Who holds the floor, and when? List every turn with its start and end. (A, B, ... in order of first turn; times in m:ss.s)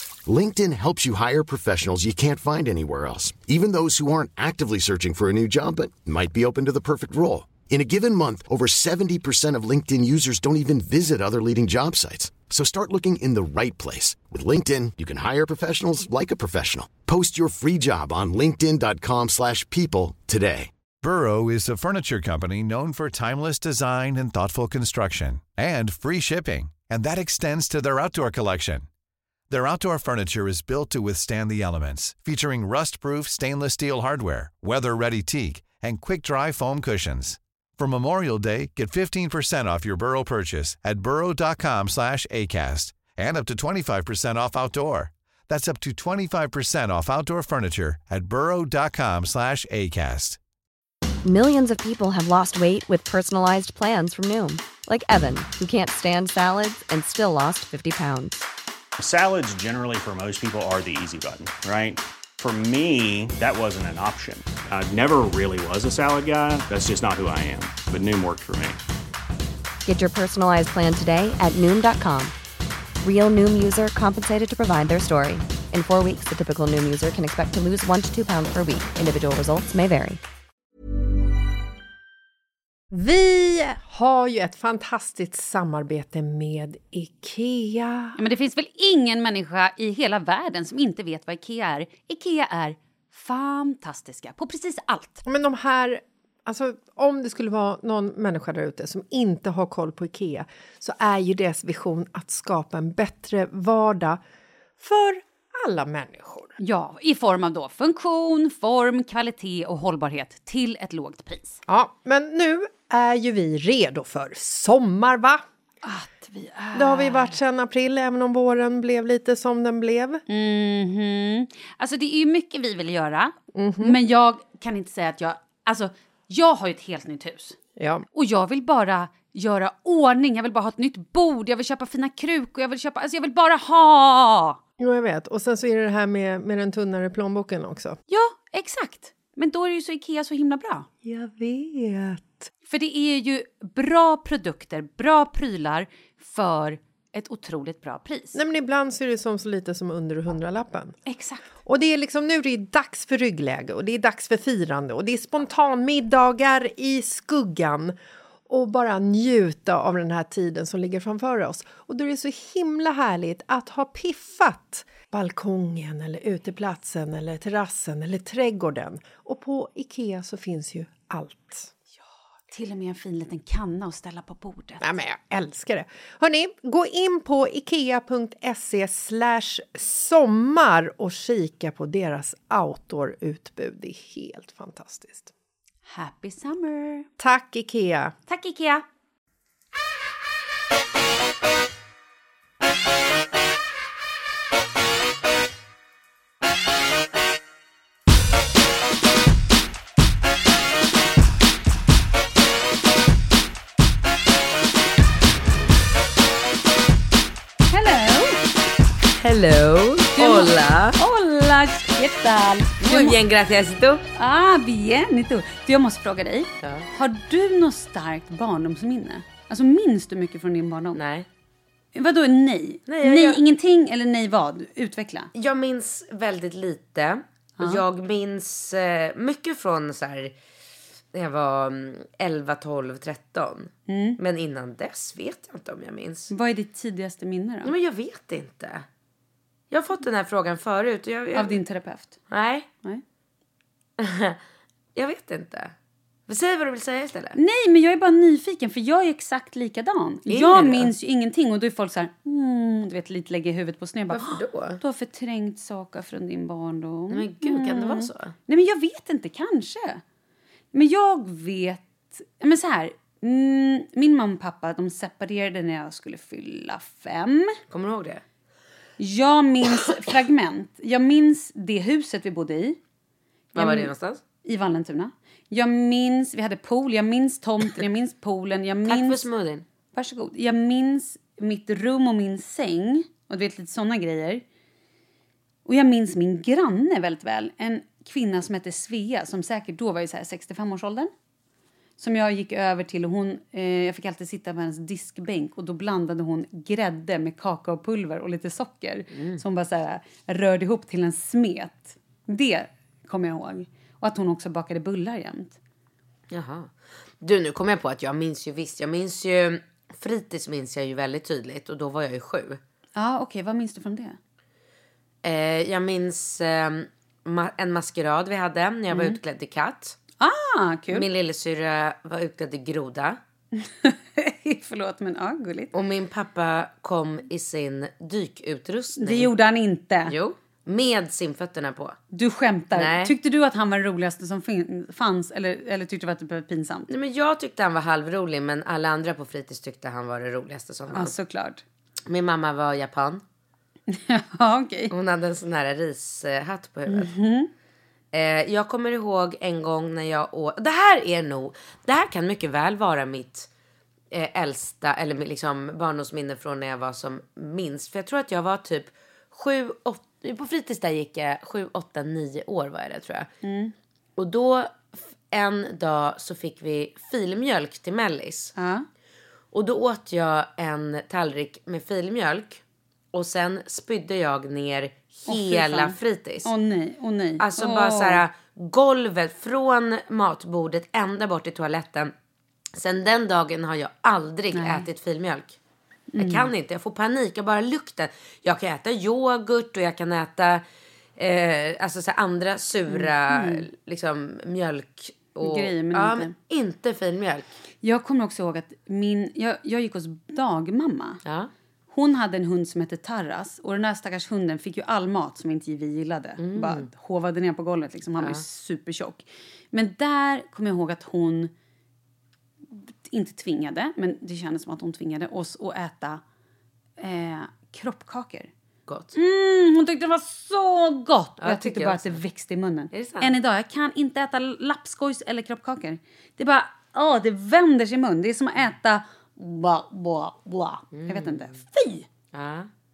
0:00.3-0:20.7 A
0:21.0-0:28.9 B
0:29.5-0:50.4 B
0:51.2-0:58.4 C
0:59.0-1:08.8 D
1:09.8-1:12.4 C
1:13.0-1:20.2 C
1:22.9-1:28.2 E
1:28.2-1:35.2 F
1:35.3-1:44.2 E
1:44.8-1:46.6 E
1:46.6-1:51.6 F
1:51.7-1:55.4 E
1:55.8-1:57.4 F
1:56.7-2:00.2 E
2:00.3-2:07.6 F
2:03.5-2:04.0 E
2:07.8-2:08.0 E
2:08.1-2:14.6 F
2:14.8-2:18.0 E
2:18.1-2:20.9 F
2:21.0-2:22.5 E
2:22.7-2:28.4 F
2:28.3-2:31.0 E
2:31.1-2:31.4 F
2:31.7-2:38.0 E
2:38.5-2:51.7 E
2:52.5-2:54.8 F
2:54.8-3:05.3 E
3:05.9-3:07.1 F
3:07.2-3:08.2 E
3:08.3-3:08.8 F
3:27.7-3:28.4 F
3:29.1-3:31.0 G
3:30.2-3:33.2 F
3:32.8-3:34.0 G
3:34.2-3:41.0 F
3:36.6-3:36.9 G
3:41.0-3:41.3 G
3:41.9-3:45.3 F
3:42.9-3:43.4 G
3:45.4-3:50.3 G
3:51.1-3:56.3 G
3:53.9-3:54.2 F
3:56.3-3:57.7 F
3:57.6-3:58.8 G
3:59.7-4:01.6 G
4:01.3-4:02.2 F
4:02.3-4:02.7 G
4:04.0-4:04.4 G
4:05.0-4:05.7 G
4:06.3-4:07.4 G
4:07.3-4:20.0 F
4:10.3-4:10.9 G
4:14.1-4:14.8 G
4:17.1-4:18.3 G
4:20.7-4:27.6 F
4:27.7-4:28.2 G
4:29.0-4:32.8 F
4:33.5-4:33.9 F
4:33.6-4:34.2 G
4:34.4-4:39.2 F
4:38.9-4:39.7 G
4:39.9-4:44.4 F
4:45.7-4:51.1 F
4:52.0-5:05.6 F
4:59.1-4:59.4 G
5:06.3-5:12.6 G
5:13.0-5:14.2 F
5:15.2-5:20.0 G
5:18.9-5:19.2 F
5:20.2-5:21.1 F
5:20.9-5:23.2 G
5:23.5-5:25.7 F
5:25.7-5:29.3 G
5:29.0-5:30.1 F
5:30.1-5:32.0 G
5:32.1-5:36.9 F
5:32.7-5:33.1 G
5:36.9-5:41.1 G
5:40.9-5:41.6 F
5:42.1-5:43.2 G
5:43.9-5:44.9 F
5:44.9-5:47.1 G
5:46.9-5:47.5 F
5:48.1-5:53.5 G
5:54.1-6:03.3 G
6:03.4-6:03.7 F
6:04.2-6:08.5 G
6:08.6-6:08.9 F
6:09.5-6:12.6 G
6:13.1-6:16.5 G
6:15.3-6:18.2 F
6:17.4-6:22.1 G
6:22.8-6:25.6 G
6:24.5-6:24.9 F
6:26.1-6:26.5 F
6:26.2-6:30.6 G
6:31.2-6:37.5 G
6:32.9-6:33.7 F
6:35.4-6:36.3 F
6:37.8-6:41.2 F
6:41.2-6:41.5 G
6:41.9-6:51.5 F
6:46.4-6:46.9 G
6:53.0-6:56.2 F
6:57.0-6:58.5 F
6:58.9-6:59.1 G
6:59.1-7:12.1 F
7:01.4-7:02.2 G
7:02.9-7:03.4 G
7:10.9-7:11.6 G
7:12.3-7:12.7 G